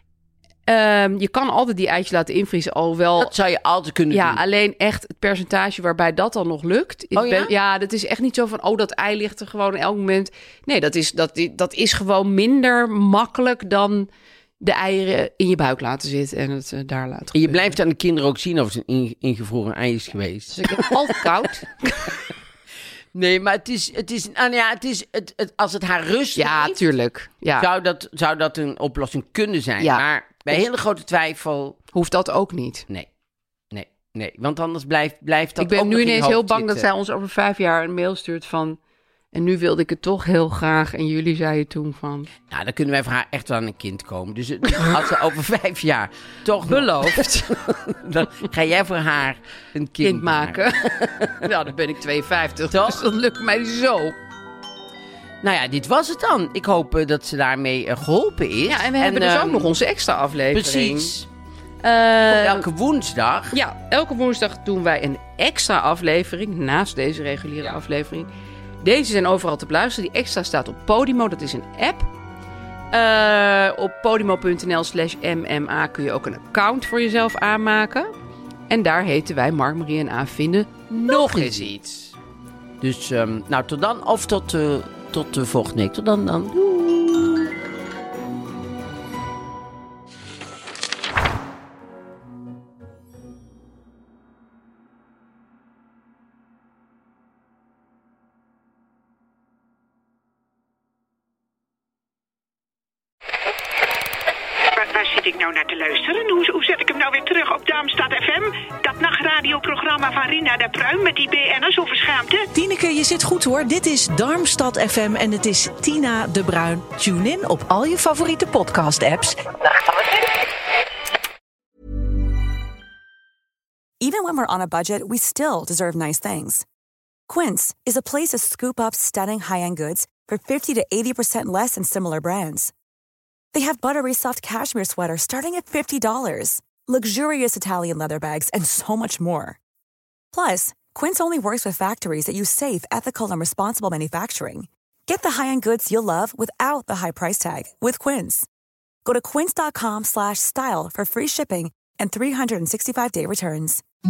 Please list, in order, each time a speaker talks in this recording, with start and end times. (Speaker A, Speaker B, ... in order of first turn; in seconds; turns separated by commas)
Speaker A: 0.7-3.3, Speaker B: 3.2-4.4, Speaker A: 4.1-14.1, Speaker B: 7.2-7.5, Speaker A: 14.6-17.8, Speaker B: 17.4-21.2, Speaker A: 20.5-22.1, Speaker B: 23.1-26.8, Speaker A: 26.4-27.7, Speaker B: 27.6-31.8, Speaker A: 29.8-30.6, Speaker A: 31.9-32.9, Speaker B: 33.7-36.9, Speaker A: 35.6-38.8, Speaker A: 39.3-42.3, Speaker B: 42.5-51.5, Speaker A: 46.6-47.5, Speaker A: 50.0-54.1, Speaker B: 52.7-53.0, Speaker B: 55.4-59.7, Speaker A: 58.7-61.1, Speaker B: 60.5-61.3, Speaker A: 61.8-62.6, Speaker B: 62.2-63.6, Speaker A: 63.5-68.3, Speaker A: 68.8-72.1, Speaker A: 72.9-78.1, Speaker A: 78.7-82.1, Speaker B: 80.9-81.7, Speaker B: 82.8-87.5, Speaker C: 104.8-112.5, Speaker D: 112.5-120.2, Speaker E: 124.0-126.7, Speaker E: 127.3-132.7, Speaker E: 133.5-139.6, Speaker E: 140.3-148.5, Speaker E: 149.1-153.8